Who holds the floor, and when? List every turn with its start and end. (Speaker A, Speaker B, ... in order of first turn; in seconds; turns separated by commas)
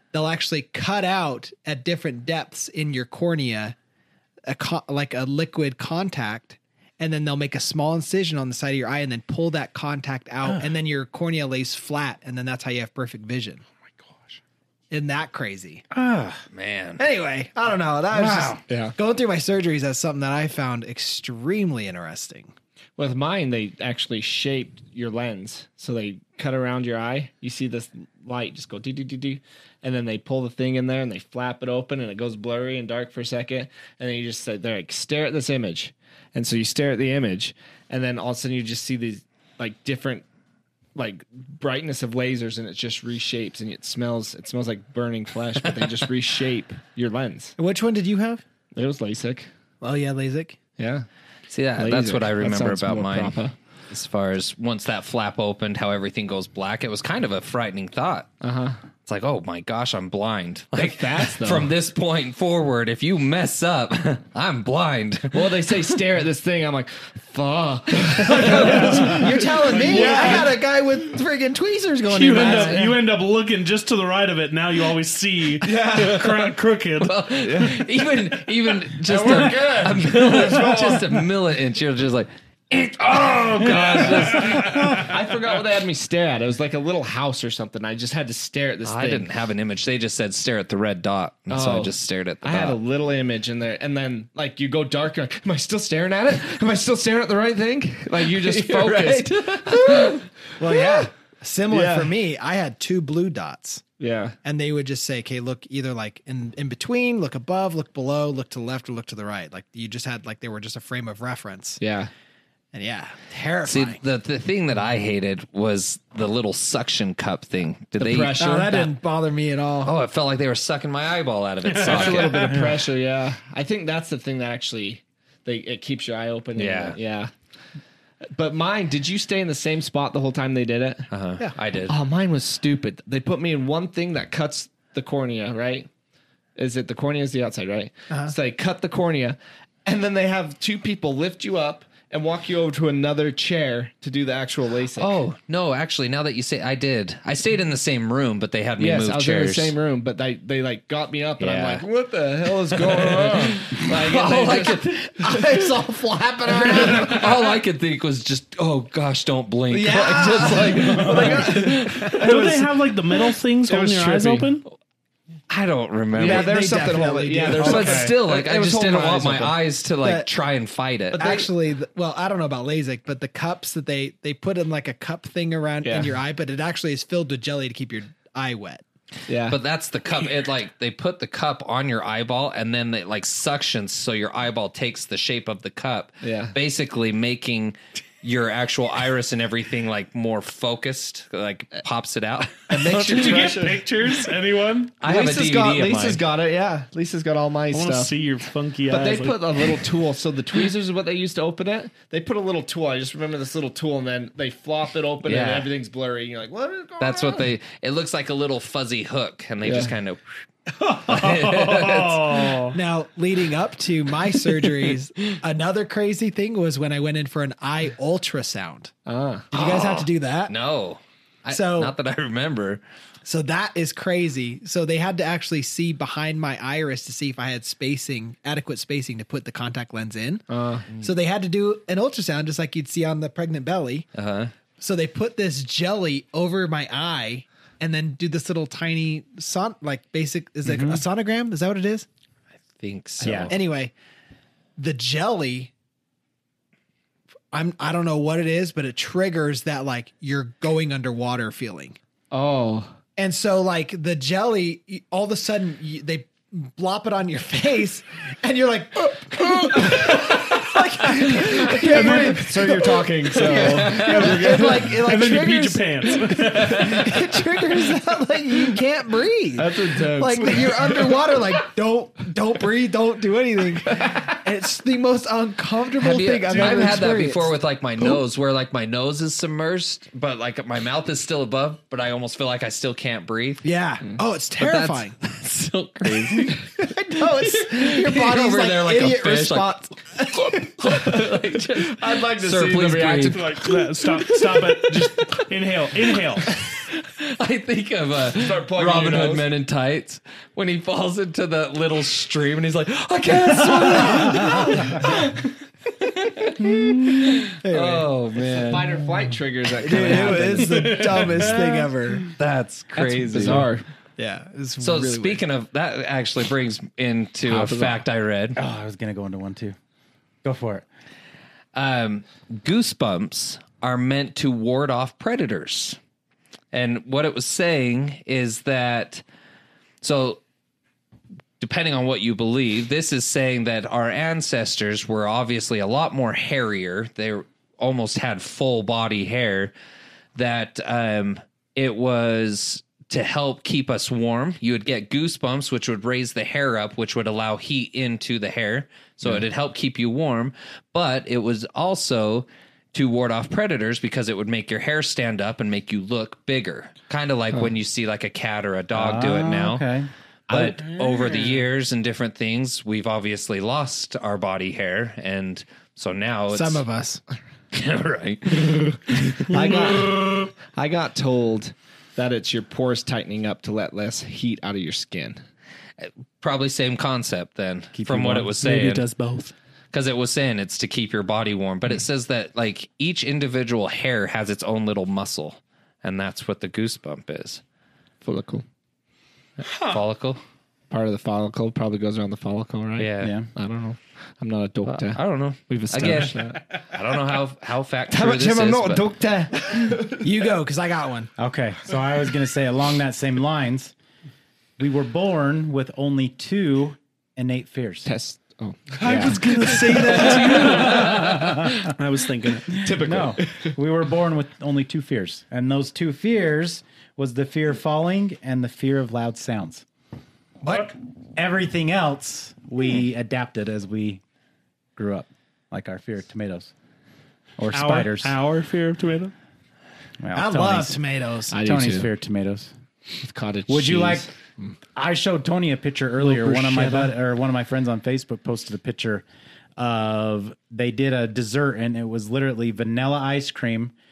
Speaker A: 0.1-3.8, Speaker A: 4.5-13.6, Speaker A: 14.9-15.8, Speaker B: 15.9-16.4, Speaker C: 16.5-17.0, Speaker A: 17.0-22.5, Speaker B: 18.1-18.6, Speaker D: 18.7-18.9, Speaker D: 23.0-40.2, Speaker D: 40.9-47.5, Speaker A: 47.6-48.4, Speaker D: 48.8-49.5, Speaker A: 49.8-50.6, Speaker D: 50.8-51.0, Speaker C: 51.5-53.4, Speaker D: 51.8-53.5, Speaker C: 53.9-58.3, Speaker D: 58.4-58.8, Speaker C: 59.0-66.0, Speaker D: 60.8-61.7, Speaker D: 65.3-70.5, Speaker C: 68.3-69.0, Speaker A: 68.4-72.9, Speaker E: 68.7-69.0, Speaker E: 70.0-70.4, Speaker E: 72.1-77.2, Speaker C: 72.4-72.8, Speaker D: 75.6-76.3, Speaker C: 77.0-85.2, Speaker D: 77.4-77.8, Speaker D: 79.0-81.2, Speaker D: 83.6-89.3, Speaker E: 84.3-85.0, Speaker C: 88.8-92.8, Speaker D: 91.5-101.0, Speaker C: 98.2-100.2, Speaker A: 100.6-103.8, Speaker D: 101.7-102.1, Speaker D: 104.0-104.3, Speaker A: 104.4-111.8, Speaker D: 111.8-112.1, Speaker A: 112.7-114.0, Speaker C: 113.7-118.3, Speaker D: 118.0-118.9, Speaker A: 118.4-119.9, Speaker C: 119.8-122.6, Speaker E: 121.7-122.8, Speaker D: 121.7-127.3, Speaker C: 126.5-127.0, Speaker D: 128.3-131.1, Speaker C: 131.1-131.9, Speaker D: 131.9-135.9, Speaker D: 136.6-145.2, Speaker C: 144.9-149.7, Speaker D: 148.8-155.9, Speaker C: 151.4-151.8, Speaker C: 152.7-155.8, Speaker A: 155.3-157.3, Speaker D: 156.4-157.5, Speaker C: 156.5-162.4, Speaker A: 159.7-161.8, Speaker D: 159.7-162.7, Speaker B: 160.8-161.3, Speaker E: 162.0-164.7, Speaker D: 163.7-164.5, Speaker C: 165.5-166.5, Speaker D: 166.1-169.6, Speaker A: 166.2-168.1, Speaker C: 167.6-171.5, Speaker A: 170.0-170.3, Speaker A: 171.1-178.8, Speaker D: 175.8-176.1, Speaker D: 179.3-179.6, Speaker C: 179.5-193.8, Speaker D: 186.2-186.5, Speaker D: 192.7-193.8, Speaker E: 193.1-194.9, Speaker C: 195.0-196.2, Speaker D: 195.0-198.1, Speaker E: 197.7-199.8, Speaker D: 198.9-207.5, Speaker C: 205.2-205.7, Speaker C: 207.0-210.2, Speaker D: 209.6-209.9, Speaker E: 210.8-212.8, Speaker C: 211.0-212.3, Speaker A: 212.7-218.9, Speaker D: 219.1-219.5, Speaker A: 219.5-220.5, Speaker C: 219.5-222.8, Speaker A: 221.5-221.9, Speaker A: 223.2-234.1, Speaker D: 230.5-230.8, Speaker C: 234.1-234.5, Speaker A: 234.8-242.1, Speaker B: 240.6-241.0, Speaker C: 242.8-243.6, Speaker B: 243.2-243.5, Speaker A: 243.5-243.9, Speaker A: 244.8-245.7, Speaker A: 247.5-252.0, Speaker D: 252.3-252.9, Speaker A: 253.2-278.2, Speaker D: 261.6-265.0, Speaker E: 263.4-267.1, Speaker D: 269.6-271.2, Speaker D: 273.9-274.2, Speaker C: 275.9-283.6, Speaker D: 276.6-277.0, Speaker A: 283.6-285.1, Speaker C: 284.6-289.7, Speaker A: 286.8-290.8, Speaker C: 290.3-295.4, Speaker D: 291.7-293.7, Speaker E: 293.3-296.5, Speaker C: 296.4-309.0, Speaker D: 298.2-299.5, Speaker B: 304.1-304.7, Speaker A: 307.5-308.1, Speaker D: 308.4-311.1, Speaker A: 309.8-312.3, Speaker C: 309.9-310.4, Speaker E: 310.6-311.9, Speaker C: 312.4-313.7, Speaker D: 312.9-313.8, Speaker A: 314.2-315.4, Speaker C: 314.8-318.6, Speaker D: 317.4-318.0, Speaker B: 318.6-319.8, Speaker B: 320.4-320.8, Speaker C: 321.7-326.0, Speaker C: 326.7-329.2, Speaker C: 330.0-330.4, Speaker C: 331.6-339.7, Speaker C: 340.3-359.8, Speaker B: 358.9-360.1, Speaker C: 360.5-366.8, Speaker A: 366.5-367.2, Speaker C: 367.7-369.8, Speaker E: 369.5-370.0, Speaker A: 369.5-370.1, Speaker D: 369.6-375.4, Speaker C: 376.0-379.1, Speaker B: 377.9-378.5, Speaker E: 378.4-379.5, Speaker C: 379.9-387.6, Speaker D: 388.2-388.6, Speaker C: 389.6-390.4, Speaker E: 389.6-390.0, Speaker D: 390.9-396.6, Speaker C: 393.0-393.4, Speaker B: 393.2-393.5, Speaker C: 394.9-399.0, Speaker D: 398.1-400.2, Speaker A: 400.1-401.3, Speaker B: 401.4-403.9, Speaker B: 404.8-408.1, Speaker D: 408.0-411.5, Speaker E: 409.0-412.8, Speaker B: 410.1-411.9, Speaker D: 412.7-413.7, Speaker B: 412.8-419.8, Speaker A: 420.6-420.9, Speaker B: 421.4-424.2, Speaker B: 424.9-426.7, Speaker B: 427.6-428.4, Speaker E: 427.7-429.3, Speaker B: 430.2-431.0, Speaker A: 430.3-431.5, Speaker D: 431.5-432.1, Speaker B: 431.5-432.7, Speaker D: 433.2-434.7, Speaker B: 433.7-434.3, Speaker B: 434.9-439.2, Speaker E: 436.2-437.1, Speaker B: 439.8-443.9